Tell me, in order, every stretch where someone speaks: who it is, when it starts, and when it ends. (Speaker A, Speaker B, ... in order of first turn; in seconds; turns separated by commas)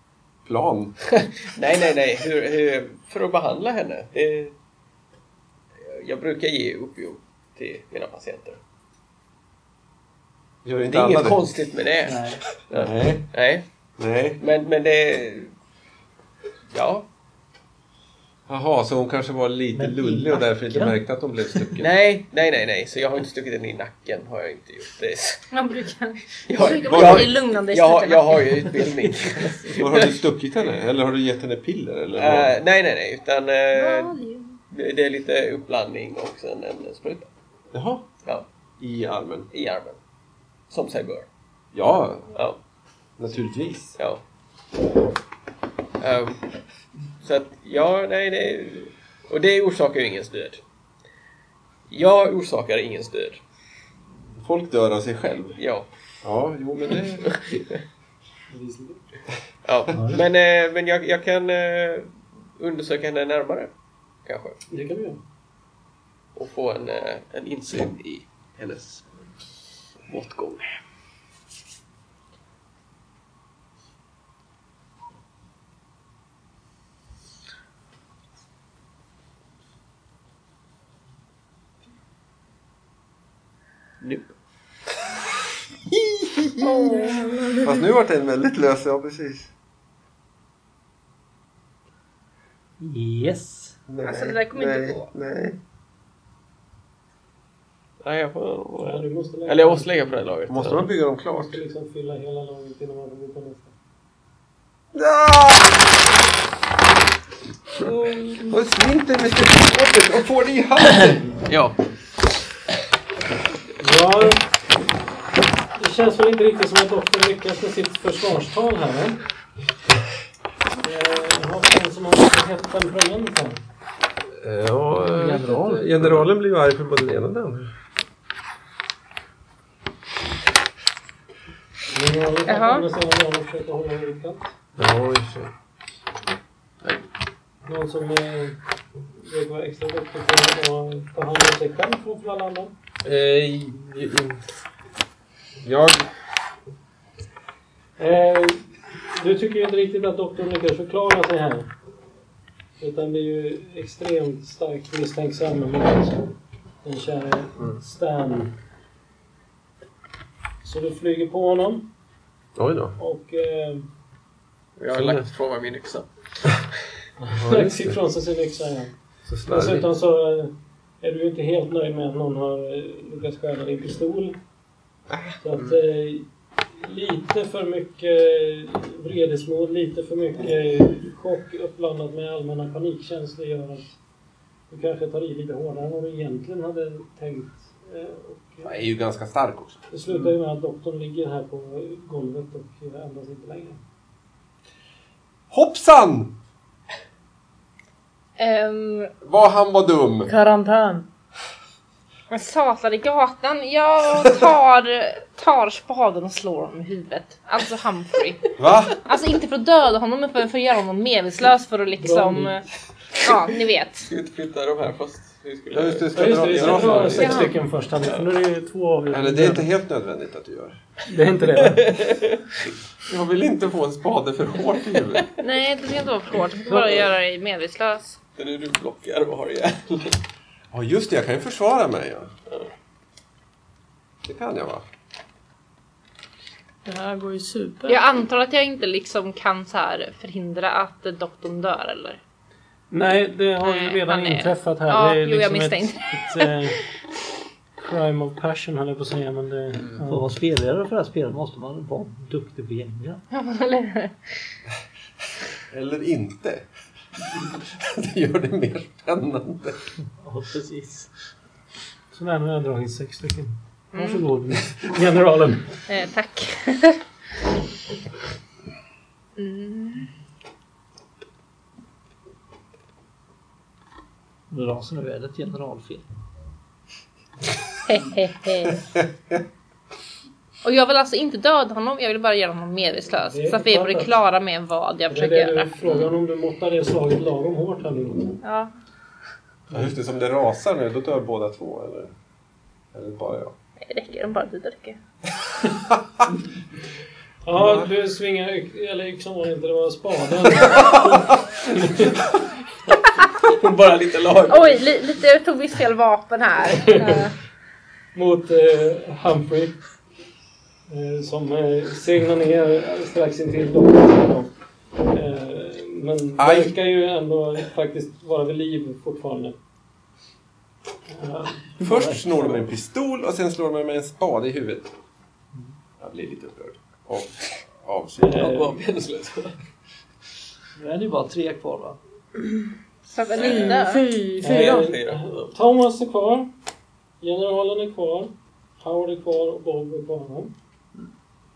Speaker A: 0.5-0.9, Speaker B: 1.1-4.5, Speaker B: 5.8-8.6, Speaker A: 10.7-11.4, Speaker B: 10.9-13.6, Speaker C: 12.0-12.4, Speaker A: 12.7-13.3, Speaker A: 14.0-14.4, Speaker B: 14.4-15.5, Speaker B: 16.7-17.1, Speaker A: 18.5-21.9, Speaker C: 19.7-21.0, Speaker B: 21.8-25.4, Speaker D: 25.5-28.9, Speaker B: 26.5-30.2, Speaker A: 26.8-27.4, Speaker A: 29.8-32.5, Speaker B: 32.2-34.1, Speaker D: 33.7-34.6, Speaker B: 34.7-37.3, Speaker A: 37.7-38.0, Speaker A: 38.8-39.5, Speaker B: 39.5-40.0, Speaker B: 40.7-41.3, Speaker A: 41.7-42.4, Speaker A: 43.2-44.0, Speaker B: 44.0-44.2, Speaker B: 46.0-46.5, Speaker B: 47.2-50.6, Speaker B: 51.9-53.4, Speaker A: 54.4-55.6, Speaker B: 55.6-55.9, Speaker A: 56.2-57.6, Speaker B: 57.3-57.8, Speaker E: 58.5-59.0, Speaker B: 59.6-63.7, Speaker B: 64.3-64.6, Speaker E: 64.7-65.2, Speaker B: 66.3-69.0, Speaker B: 70.1-70.8, Speaker B: 84.0-84.3, Speaker F: 86.6-87.8, Speaker A: 87.6-89.5, Speaker C: 92.8-93.8, Speaker A: 93.9-95.6, Speaker D: 94.0-95.1, Speaker B: 98.0-100.9, Speaker E: 98.8-100.1, Speaker A: 100.5-101.6, Speaker E: 101.3-103.7, Speaker A: 104.9-105.8, Speaker A: 108.4-111.4, Speaker B: 111.5-111.8, Speaker E: 113.8-114.4, Speaker E: 115.8-119.2, Speaker E: 120.8-123.6, Speaker A: 124.4-127.7, Speaker C: 125.0-126.3, Speaker E: 131.9-134.6, Speaker D: 132.5-132.9, Speaker A: 134.8-135.5, Speaker E: 137.7-138.6, Speaker E: 139.1-142.7, Speaker A: 143.0-144.4, Speaker A: 145.6-146.1, Speaker E: 148.0-151.7, Speaker E: 152.8-156.3, Speaker E: 156.8-158.5, Speaker E: 160.6-161.9, Speaker A: 162.6-163.0, Speaker E: 163.0-163.9, Speaker B: 164.8-166.7, Speaker A: 164.9-165.2, Speaker E: 167.2-168.9, Speaker A: 167.3-168.0, Speaker A: 169.3-169.9, Speaker E: 169.5-174.4, Speaker A: 175.1-175.8, Speaker E: 175.4-184.0, Speaker E: 184.7-188.8, Speaker A: 188.6-190.3, Speaker E: 189.9-193.8, Speaker A: 195.5-196.3, Speaker D: 198.4-199.1, Speaker A: 199.2-200.3, Speaker F: 200.3-201.1, Speaker D: 202.3-212.7, Speaker A: 208.6-209.0, Speaker E: 212.0-212.6, Speaker D: 213.2-214.1, Speaker B: 214.1-217.3, Speaker A: 215.7-217.5, Speaker E: 216.1-219.7, Speaker D: 217.1-217.6, Speaker A: 219.1-220.8, Speaker E: 221.1-221.9, Speaker B: 221.6-222.4, Speaker A: 223.1-225.3, Speaker D: 225.4-228.2, Speaker B: 228.4-230.2, Speaker A: 230.7-232.3, Speaker A: 234.2-234.8, Speaker F: 236.8-238.0, Speaker D: 237.9-242.2, Speaker E: 242.9-246.8, Speaker D: 243.6-246.7, Speaker E: 247.8-250.3, Speaker C: 250.1-253.2, Speaker D: 253.3-254.2, Speaker A: 255.7-256.7, Speaker A: 257.3-259.8, Speaker C: 260.2-261.1, Speaker E: 262.1-265.8, Speaker D: 263.9-264.2, Speaker D: 265.9-267.0, Speaker D: 269.4-270.1, Speaker C: 274.5-276.1, Speaker D: 277.9-278.8, Speaker A: 279.0-279.4, Speaker D: 280.6-286.1, Speaker E: 283.2-284.2, Speaker E: 285.1-288.4, Speaker D: 288.4-288.7, Speaker A: 289.7-292.1, Speaker A: 292.9-293.6, Speaker D: 293.8-295.0, Speaker E: 297.4-302.2, Speaker A: 297.6-297.9, Speaker B: 303.4-304.8, Speaker D: 304.5-307.3, Speaker E: 306.8-307.3, Speaker E: 308.1-309.9, Speaker E: 310.9-314.5, Speaker E: 315.1-319.6, Speaker A: 316.4-316.7, Speaker E: 321.1-321.7, Speaker C: 321.8-322.6, Speaker A: 321.8-324.9, Speaker A: 326.0-328.5, Speaker E: 328.2-328.7, Speaker B: 328.4-329.6, Speaker C: 330.8-332.0, Speaker D: 333.1-334.1, Speaker F: 333.4-335.0, Speaker E: 334.4-336.5, Speaker B: 334.4-335.5, Speaker E: 337.2-340.5